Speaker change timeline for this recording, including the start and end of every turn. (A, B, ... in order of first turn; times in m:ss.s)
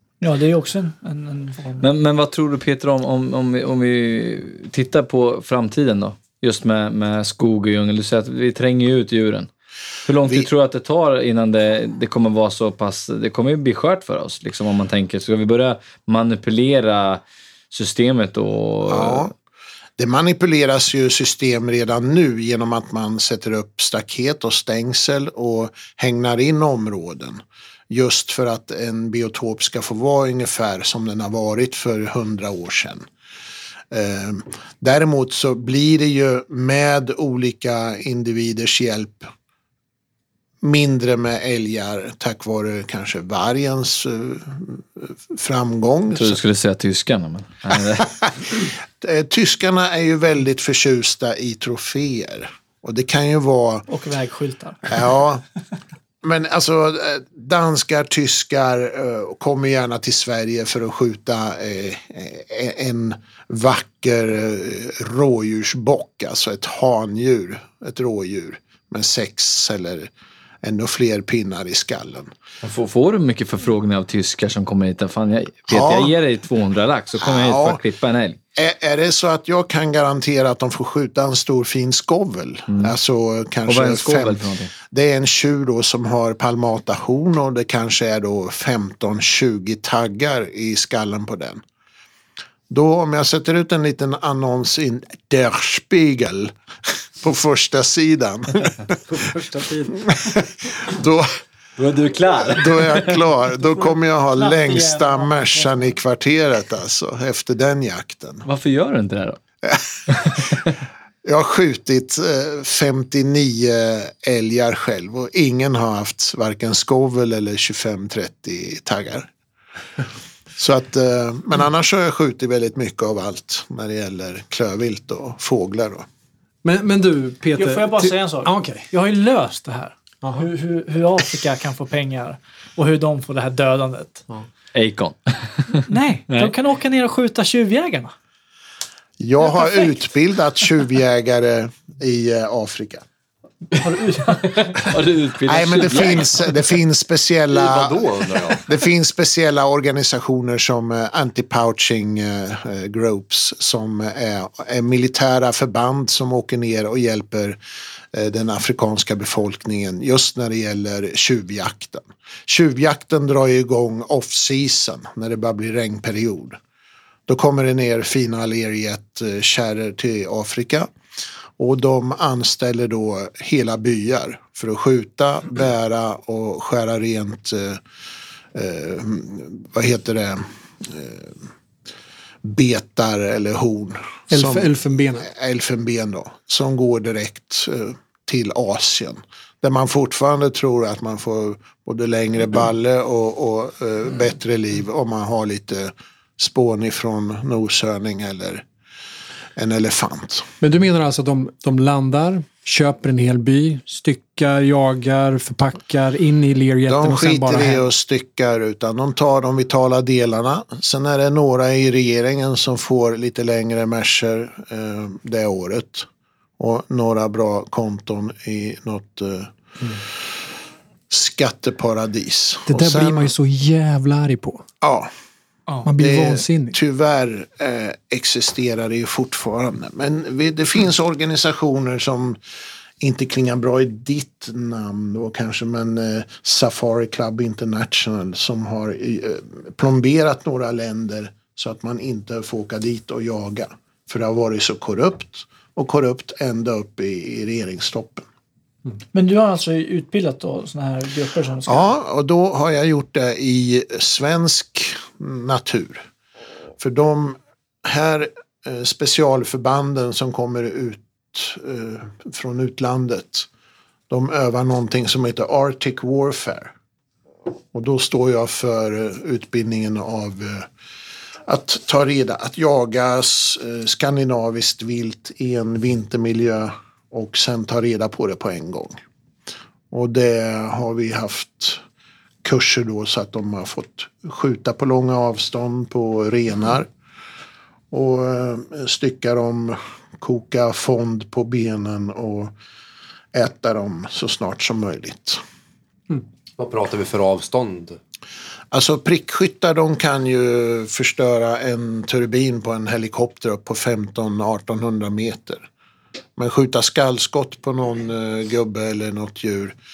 0:00.2-0:01.9 A
0:01.8-0:09.5 B
0:10.0-0:19.3 B
0:18.9-0:19.3 C
0:20.0-0:33.1 C
0:33.9-0:39.3 C
0:40.6-0:46.4 C
0:46.1-0:48.1 B
0:48.0-0:53.8 C
0:53.9-0:54.9 A
0:54.9-0:55.4 C
0:56.2-1:10.1 C
1:10.6-1:12.3 C
1:12.6-1:18.4 B
1:15.7-1:16.1 C
1:17.2-1:17.8 C
1:18.6-1:31.6 C
1:23.7-1:24.7 B
1:32.7-1:39.0 C
1:39.1-1:39.8 B
1:39.9-1:41.4 C
1:41.8-1:43.2 B
1:42.4-1:48.4 C
1:43.8-1:45.9 A
1:48.4-1:49.4 B
1:49.6-1:50.7 C
1:50.2-1:50.5 B
1:51.2-1:59.3 C
2:00.6-2:06.1 C
2:06.6-2:08.9 D
2:07.6-2:14.2 A
2:14.7-2:16.5 B
2:15.9-2:18.1 A
2:19.2-2:23.0 C
2:23.8-2:24.9 A
2:24.6-2:26.6 B
2:25.5-2:37.6 C
2:27.5-2:28.7 E
2:38.1-2:46.6 C
2:47.3-2:50.9 C
2:51.6-2:57.8 C
2:58.5-3:01.4 C
3:02.4-3:04.7 C
3:04.3-3:05.3 D
3:05.2-3:18.6 C
3:19.6-3:20.5 C
3:20.6-3:27.9 D
3:26.9-3:36.1 C
3:36.6-3:40.0 C
3:41.1-3:43.3 C
3:42.7-3:44.7 D
3:44.8-3:45.1 C
3:45.8-3:46.8 D
3:45.9-3:52.4 C
3:53.0-4:08.3 C
4:09.1-4:11.9 A
4:11.7-4:16.0 C
4:16.8-4:23.5 C
4:24.1-4:26.7 C
4:27.7-4:30.7 C
4:31.5-4:39.0 C
4:39.9-4:41.8 C
4:42.4-4:46.9 C
4:47.9-4:52.5 C
4:53.3-4:55.4 C
4:56.6-4:58.0 E
4:58.7-5:05.7 C
5:06.4-5:09.8 C